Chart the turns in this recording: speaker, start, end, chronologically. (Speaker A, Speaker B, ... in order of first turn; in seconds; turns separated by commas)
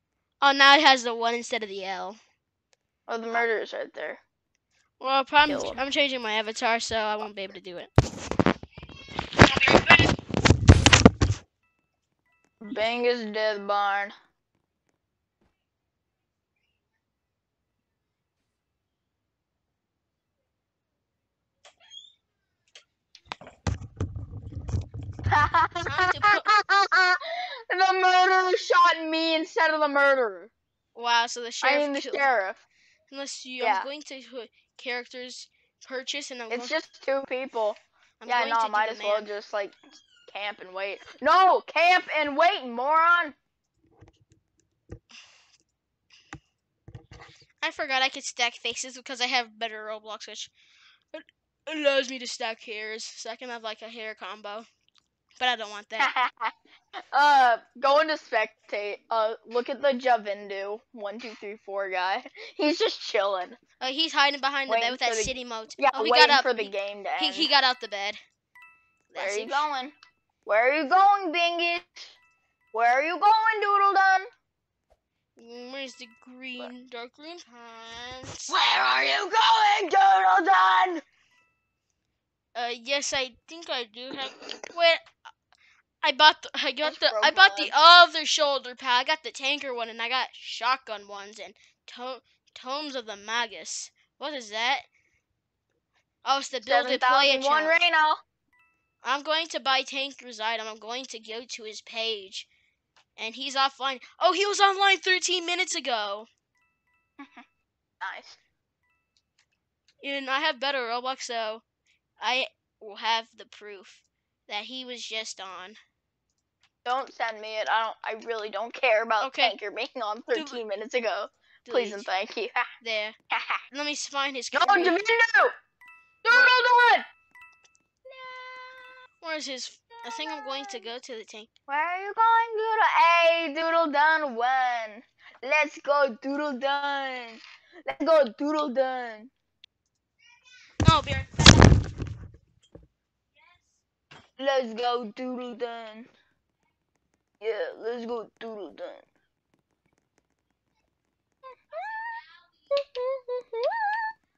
Speaker A: 0.4-2.2, Speaker B: 3.1-4.2, Speaker A: 5.0-7.9, Speaker B: 5.5-5.8, Speaker B: 12.6-14.1, Speaker B: 25.3-30.5, Speaker A: 25.9-26.5, Speaker A: 30.9-32.3, Speaker B: 31.6-32.6, Speaker A: 33.1-36.7, Speaker B: 33.6-33.9, Speaker B: 36.5-39.8, Speaker A: 38.2-39.3, Speaker B: 40.3-43.4, Speaker A: 47.6-50.5, Speaker A: 51.1-54.7, Speaker A: 55.4-56.1, Speaker B: 56.0-56.5, Speaker B: 57.1-63.6, Speaker A: 63.8-68.2, Speaker B: 64.7-67.5, Speaker A: 69.1-69.7, Speaker B: 69.2-69.9, Speaker B: 70.5-72.1, Speaker B: 72.7-74.3, Speaker A: 75.4-78.6, Speaker B: 78.5-81.0, Speaker A: 82.5-85.1, Speaker A: 86.0-94.8, Speaker B: 86.8-87.7, Speaker A: 96.2-97.8, Speaker B: 96.6-98.2, Speaker A: 99.0-102.5, Speaker A: 103.2-106.3, Speaker B: 108.0-108.4, Speaker A: 110.0-111.6, Speaker A: 112.2-115.8, Speaker B: 116.8-122.6, Speaker A: 119.2-119.6, Speaker A: 120.3-120.6, Speaker A: 121.7-122.1, Speaker A: 122.8-123.2, Speaker B: 123.3-123.6, Speaker A: 123.7-125.0, Speaker B: 124.5-125.5, Speaker B: 126.2-127.1, Speaker B: 128.1-128.9, Speaker A: 129.2-131.5, Speaker B: 130.1-130.9, Speaker B: 131.7-139.3, Speaker A: 140.8-141.6, Speaker B: 144.4-146.1, Speaker B: 147.4-149.1, Speaker B: 151.7-152.2, Speaker B: 152.7-154.1